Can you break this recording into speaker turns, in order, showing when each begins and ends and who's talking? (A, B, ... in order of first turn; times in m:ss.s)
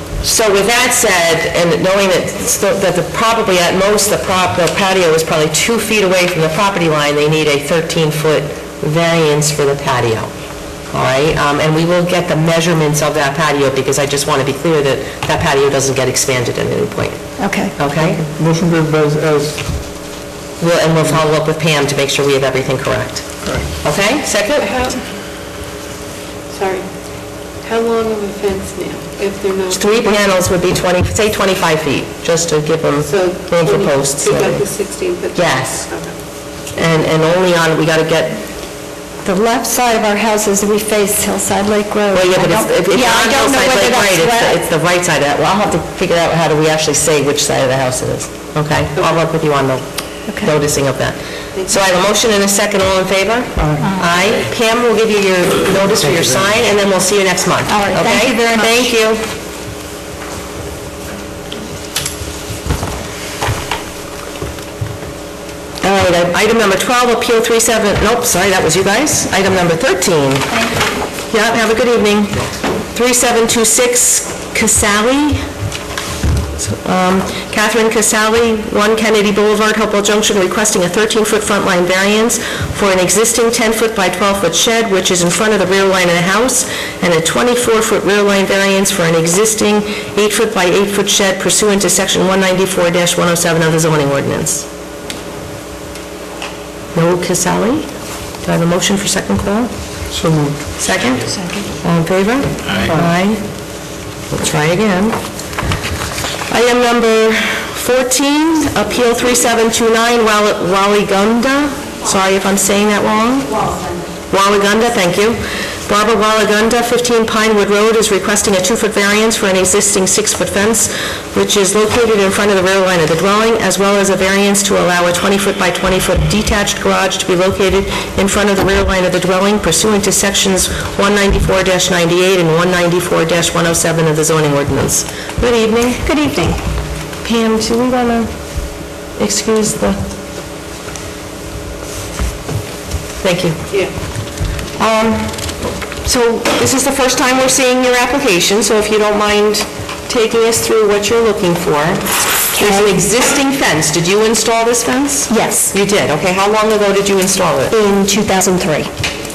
0:00.2-0:10.3 A
0:10.9-0:17.2 A
0:17.4-0:17.7 B
0:17.8-0:18.2 A
0:18.0-0:19.6 C
0:20.6-0:23.3 A
0:23.8-0:24.7 A
0:24.6-0:25.0 D
0:26.5-0:26.8 D
0:27.6-0:30.2 D
0:29.7-0:34.6 A
0:33.0-0:36.1 D
0:35.3-0:35.9 A
0:36.7-0:38.4 A
0:39.2-0:44.6 B
0:42.1-0:49.8 A
0:50.4-0:59.3 A
0:53.6-0:53.8 C
0:53.8-0:54.1 B
0:57.7-0:58.9 B
1:05.8-1:10.6 A
1:11.3-1:15.4 A
1:16.6-1:34.6 A
1:36.9-1:37.9 A
1:38.4-1:39.7 A
1:40.1-1:40.6 C
1:40.8-1:43.4 A
1:41.3-1:41.6 B
1:44.3-1:45.2 A
1:46.5-1:53.6 A
1:53.5-1:54.0 B
1:54.3-2:16.0 A
2:16.0-2:16.6 B
2:17.2-2:18.3 A
2:19.2-2:20.0 A
2:23.2-2:23.6 A
2:24.8-2:25.5 A
2:26.0-2:37.8 A
2:32.5-2:33.0 B
2:35.3-2:35.7 B
2:37.7-2:38.9 B